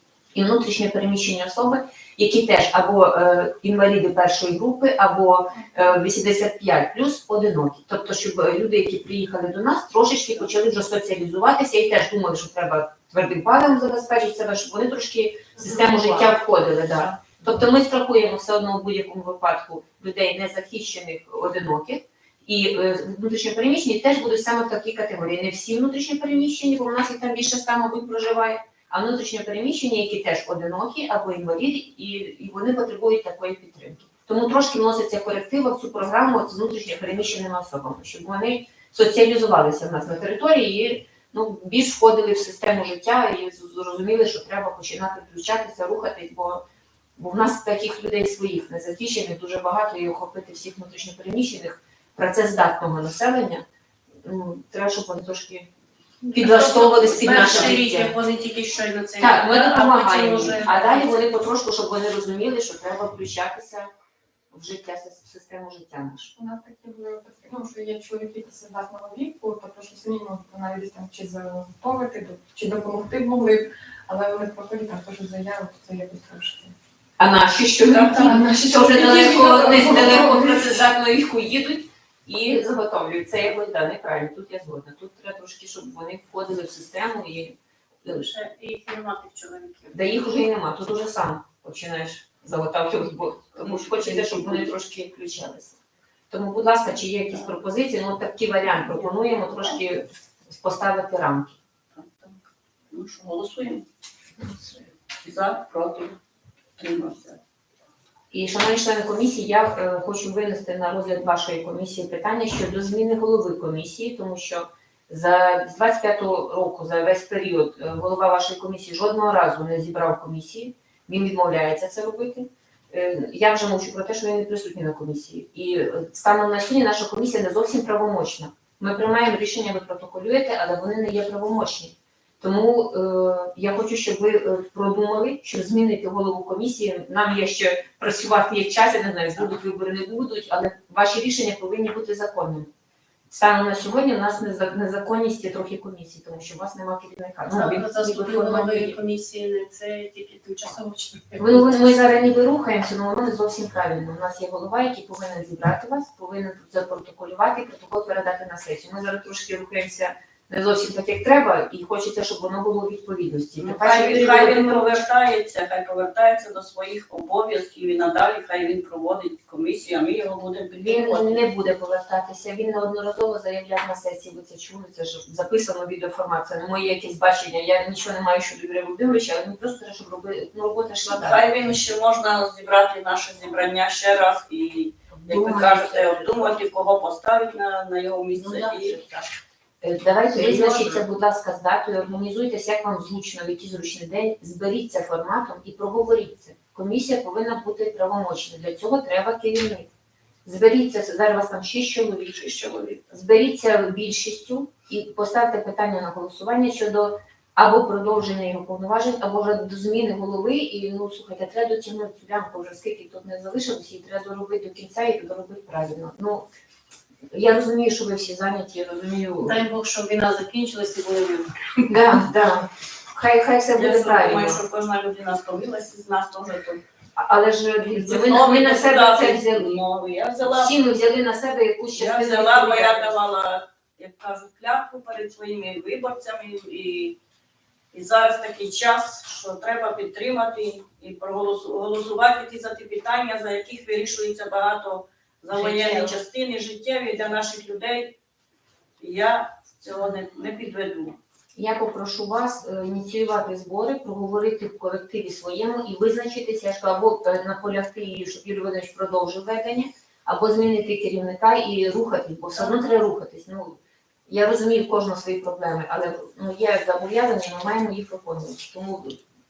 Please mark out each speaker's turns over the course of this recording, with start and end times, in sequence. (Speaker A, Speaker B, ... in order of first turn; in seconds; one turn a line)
Speaker A: 0.3-46.6
Speaker A: 47.2-53.6
Speaker A: 54.2-55.7
Speaker A: 56.2-58.1
Speaker B: 56.3-61.2
Speaker A: 59.2-63.9
Speaker A: 64.5-66.3
Speaker C: 66.3-76.7
Speaker A: 77.2-88.3
Speaker C: 77.9-80.8
Speaker B: 88.0-90.0
Speaker A: 89.9-95.8
Speaker D: 93.5-94.7
Speaker A: 96.3-101.6
Speaker D: 101.9-103.8
Speaker D: 105.2-106.2
Speaker D: 106.8-107.4
Speaker A: 108.3-142.7
Speaker A: 143.3-149.0
Speaker B: 147.5-151.9
Speaker A: 151.4-164.9
Speaker D: 163.6-171.4
Speaker A: 170.8-181.4
Speaker D: 181.1-189.0
Speaker A: 185.1-186.6
Speaker A: 188.4-189.2
Speaker A: 189.8-199.9
Speaker D: 190.3-191.0
Speaker A: 200.4-216.4
Speaker A: 217.3-219.6
Speaker B: 219.4-221.5
Speaker A: 221.9-224.6
Speaker D: 223.7-226.8
Speaker A: 227.2-229.8
Speaker D: 227.9-230.8
Speaker A: 230.4-233.2
Speaker D: 231.9-237.2
Speaker D: 237.9-248.2
Speaker A: 245.5-246.2
Speaker D: 249.0-251.2
Speaker A: 251.5-269.2